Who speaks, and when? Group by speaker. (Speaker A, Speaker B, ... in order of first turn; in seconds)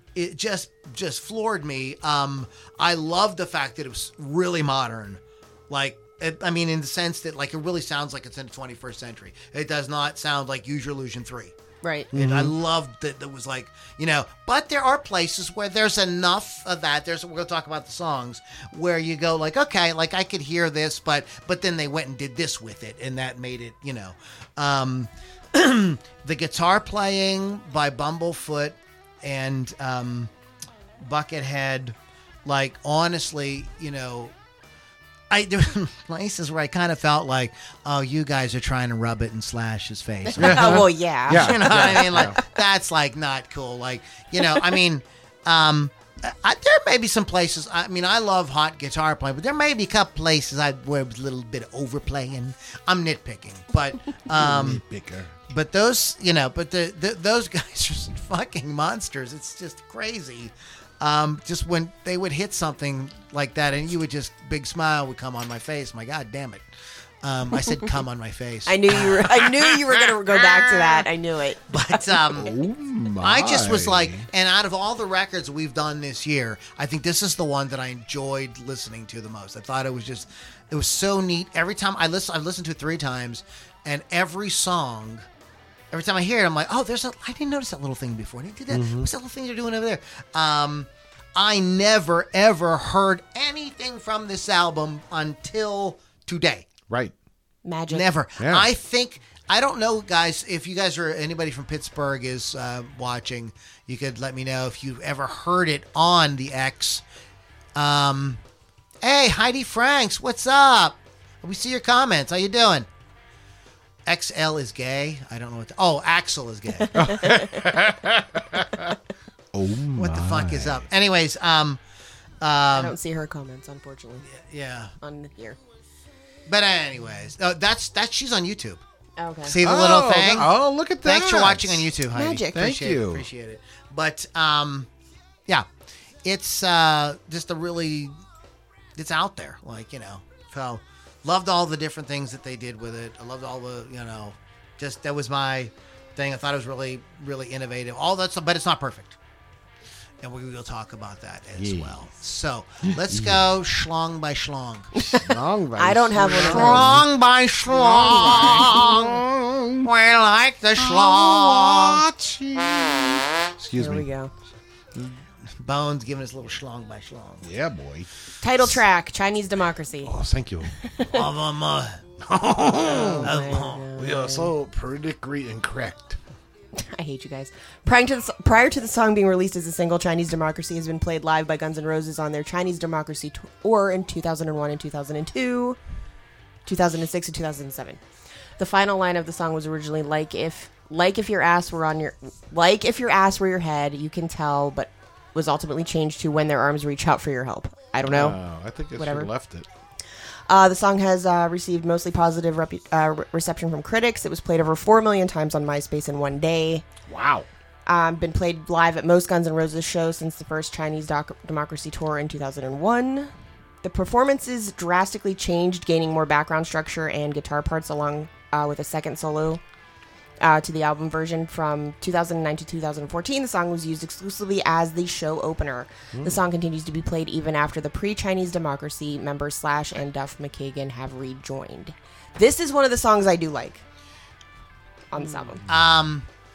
Speaker A: 0.1-11.6, 12.1-30.3, 31.0-34.4, 35.3-54.8, 55.5-66.7, 67.2-71.1, 71.7-72.5, 73.2-85.2, 85.9-96.7, 97.9-107.0, 107.8-108.4, 109.0-112.9, 114.1-117.1, 120.0-121.8, 122.4-123.0, 124.3-125.0, 126.5-128.8, 129.4-130.5, 131.0-134.9, 136.2-138.1, 139.0-149.2, 150.2-155.2, 156.3-159.2, 159.8-162.1, 164.9-167.4, 171.1-172.0, 173.2-173.8, 235.7-236.3
Speaker B: 11.8-12.1, 40.3-42.4, 68.7-72.0, 97.7-98.1, 117.2-117.5, 122.7-124.3, 125.0-125.6, 129.2-129.6, 132.1-132.7, 155.8-157.0, 157.9-158.7, 163.8-164.3, 168.4-170.1, 170.8-171.2, 172.8-174.5, 176.8-185.8, 186.7-188.0, 188.6-198.4, 199.0-199.3, 200.5-206.8, 207.9-213.3, 213.8-219.6, 220.4-233.8, 235.1-235.6
Speaker C: 12.1-12.6, 40.4-42.4, 54.3-55.3, 72.3-74.3, 88.7-89.1, 96.9-97.1, 98.4-98.7, 116.9-119.0, 119.5-120.9, 129.6-131.9, 132.5-133.3, 151.6-152.0, 152.8-153.4, 155.1-157.1, 157.7-159.9, 160.8-164.1, 167.4-168.8, 170.0-170.8, 172.2-176.2, 198.0-199.7, 207.1-207.5, 226.1-226.4, 235.6-235.8